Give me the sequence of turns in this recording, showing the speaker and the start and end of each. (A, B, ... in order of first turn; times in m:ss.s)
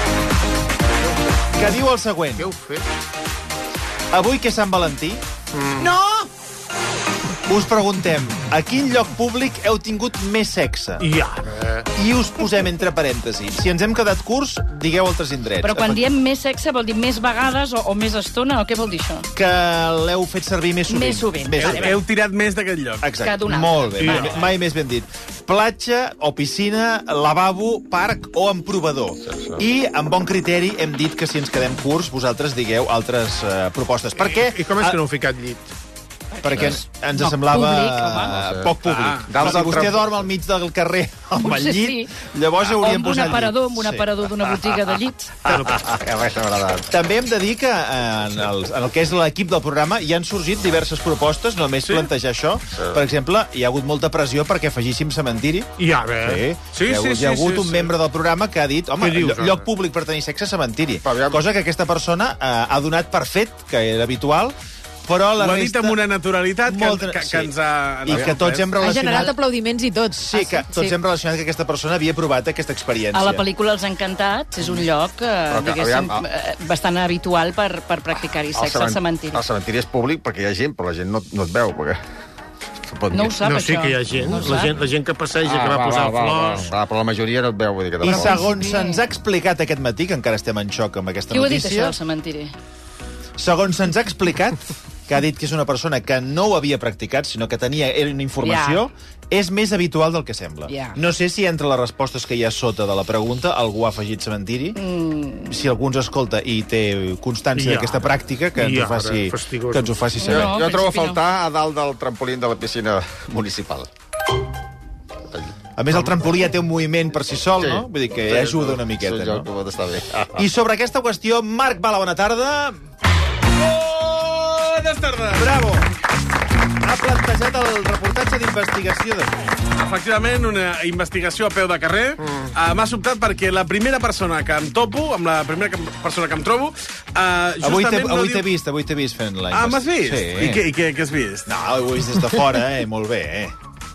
0:01.0-0:01.3 A
0:01.5-0:02.5 B
0:02.4-0:02.9 A
0:04.1-0:05.2 B
0:05.5-0:06.0 A
0:05.8-0:06.2 B
0:07.5-0:11.1 B
0:11.0-0:11.9 A
0:12.0-0:16.0 B
0:15.6-0:19.3 C
0:19.4-0:22.0 B
0:20.9-0:21.9 C
0:21.6-0:23.1 D
0:23.0-0:35.0 B
0:23.2-0:24.4 C
0:24.0-0:24.4 A
0:29.2-0:29.6 E
0:34.2-0:35.7 A
0:36.3-0:38.4 C
0:36.4-0:44.1 B
0:38.4-0:38.7 E
0:38.8-0:39.7 D
0:39.3-0:40.2 E
0:41.4-0:45.8 C
0:45.5-0:46.9 E
0:46.9-1:06.0 B
0:51.8-0:52.1 D
0:55.8-0:56.4 A
0:56.7-0:57.9 D
0:59.0-0:59.6 A
1:01.0-1:01.4 E
1:05.4-1:08.7 D
1:06.7-1:07.5 B
1:08.1-1:09.4 B
1:08.8-1:11.0 F
1:10.2-1:13.4 B
1:13.1-1:19.4 C
1:15.5-1:16.2 E
1:18.6-1:22.0 E
1:22.9-1:23.4 E
1:23.1-1:24.6 C
1:23.4-1:26.7 A
1:25.4-1:28.6 E
1:28.0-1:32.0 B
1:28.2-1:29.0 F
1:31.3-1:32.5 C
1:33.4-1:44.8 B
1:38.4-1:38.9 C
1:40.7-1:41.0 C
1:44.8-1:45.6 C
1:45.5-1:50.6 B
1:47.6-1:50.0 A
1:50.2-1:51.2 C
1:50.2-1:53.9 E
1:55.8-1:59.5 B
1:57.6-2:00.4 E
2:00.4-2:02.8 B
2:03.6-2:05.6 D
2:05.4-2:05.9 B
2:06.8-2:09.4 B
2:09.8-2:18.5 D
2:17.6-2:20.7 B
2:19.5-2:21.5 D
2:21.5-2:23.6 B